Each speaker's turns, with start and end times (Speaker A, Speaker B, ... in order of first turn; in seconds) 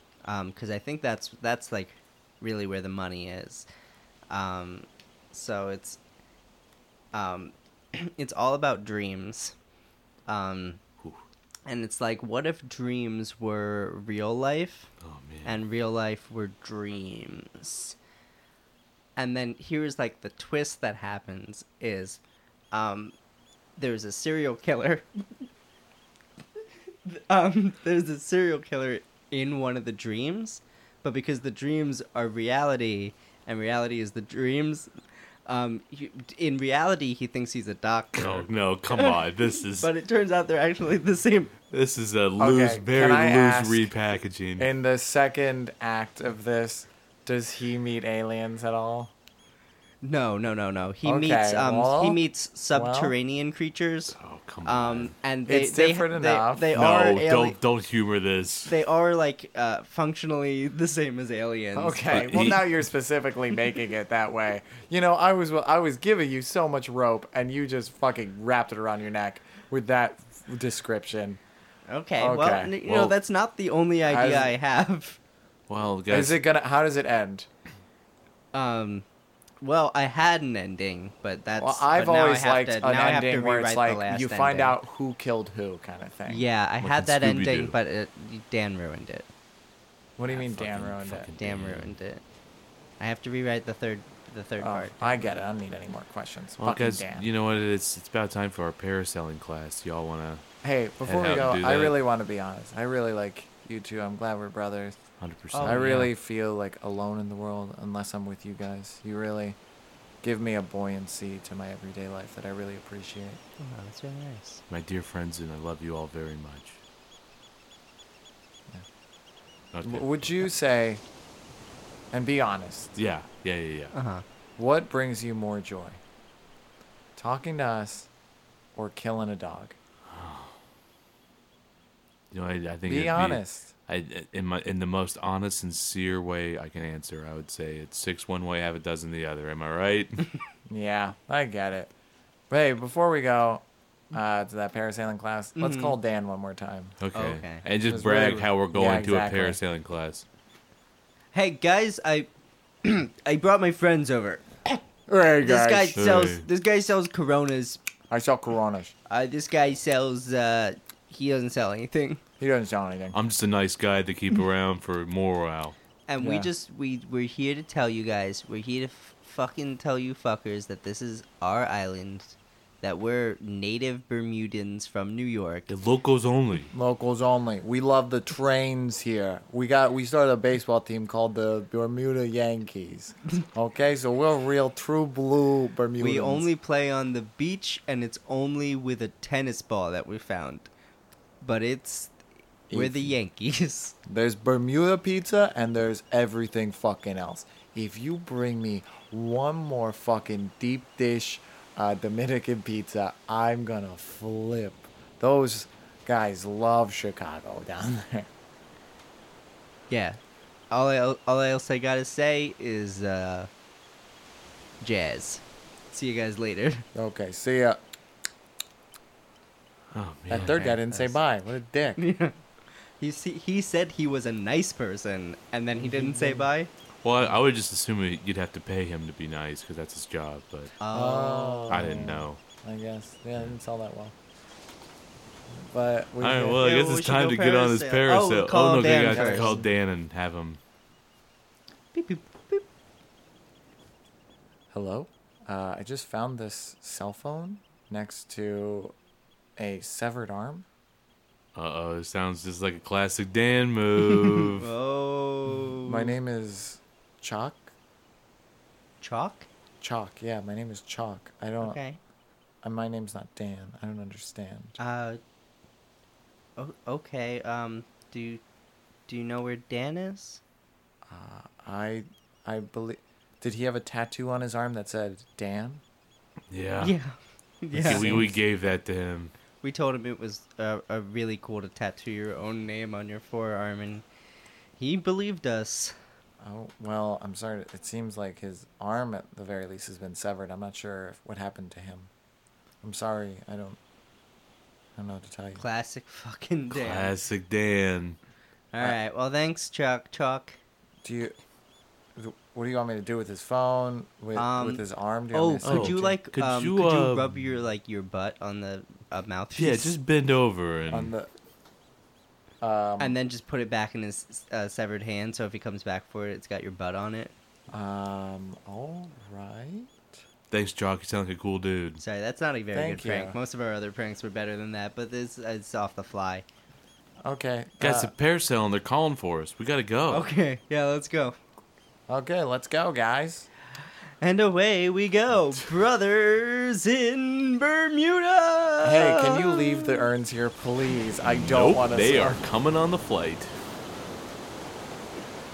Speaker A: 0.2-3.7, 4.3-6.0, 7.1-9.6, 10.3-10.8, 11.7-14.9, 15.4-18.0, 19.2-22.2, 22.7-23.1, 23.8-25.1, 27.1-34.9, 35.5-41.5, 50.0-57.6, 58.7-62.5, 71.9-75.2, 78.5-79.0, 79.6-84.8, 86.3-89.3, 91.4-92.2, 93.0-95.2, 105.5-106.1, 113.6-114.6, 123.9-124.2, 145.6-146.0, 147.2-147.6, 151.3-152.3, 152.8-154.8, 155.4-157.8, 159.1-162.2, 166.1-175.7, 186.0-190.7, 191.4-192.1, 192.7-193.9, 209.9-210.2, 210.7-213.5, 214.8-216.9, 220.9-221.2, 222.0-222.4, 223.0-226.7, 230.8-231.9, 236.6-239.6, 241.9-242.7, 254.0-256.2, 259.0-259.5, 261.6-262.0, 264.8-265.2, 266.6-268.4, 269.1-270.4, 276.8-278.2, 279.6-284.1, 284.8-285.9, 295.6-297.1, 298.7-300.6, 304.4-310.0, 313.0-317.3, 322.0-326.4, 330.1-331.4, 334.2-340.1
Speaker B: 15.0-15.6, 38.2-39.9, 41.7-44.7, 54.1-55.1, 56.7-58.7, 62.1-62.6, 72.9-73.1, 75.7-76.4, 86.8-87.8, 90.3-91.9, 96.6-100.4, 101.0-101.9, 105.2-106.0, 114.7-116.8, 119.7-120.5, 123.0-123.9, 130.1-130.6, 132.3-140.3, 147.0-150.3, 156.0-156.5, 163.1-165.8, 175.7-176.7, 219.9-220.8, 227.0-230.7, 231.7-232.4, 236.2-240.6, 251.6-254.7, 276.5-277.0, 277.8-279.3, 296.7-298.2, 305.6-307.3, 309.6-311.1, 320.5-322.0, 327.8-330.3, 341.2-343.6
Speaker C: 42.4-43.9, 44.6-49.1, 51.0-52.2, 52.7-53.1, 55.5-56.9, 61.8-71.4, 72.2-72.8, 74.1-74.5, 76.1-77.5, 81.6-86.4, 90.2-91.3, 94.6-97.3, 100.6-105.0, 105.6-109.6, 110.2-113.4, 119.8-121.0, 122.1-123.0, 124.6-126.0, 127.2-128.1, 128.8-129.8, 132.9-133.7, 140.7-141.9, 142.5-147.0, 147.8-149.6, 155.1-156.0, 158.1-158.9, 162.4-163.2, 166.2-166.5, 176.7-186.5, 192.7-193.2, 194.1-208.3, 216.9-217.8, 220.3-222.0, 225.8-226.5, 230.9-234.2, 235.6-236.7, 239.1-239.7, 244.7-248.9, 249.6-250.7, 255.8-257.7, 259.8-261.8, 262.6-264.8, 271.1-275.8, 277.7-278.4, 286.4-292.1, 292.8-293.8, 295.0-295.6, 301.0-301.4, 302.2-306.2, 310.9-311.3, 312.6-313.2, 317.7-320.1, 322.7-323.4, 327.2-328.1, 332.1-333.5, 338.8-342.4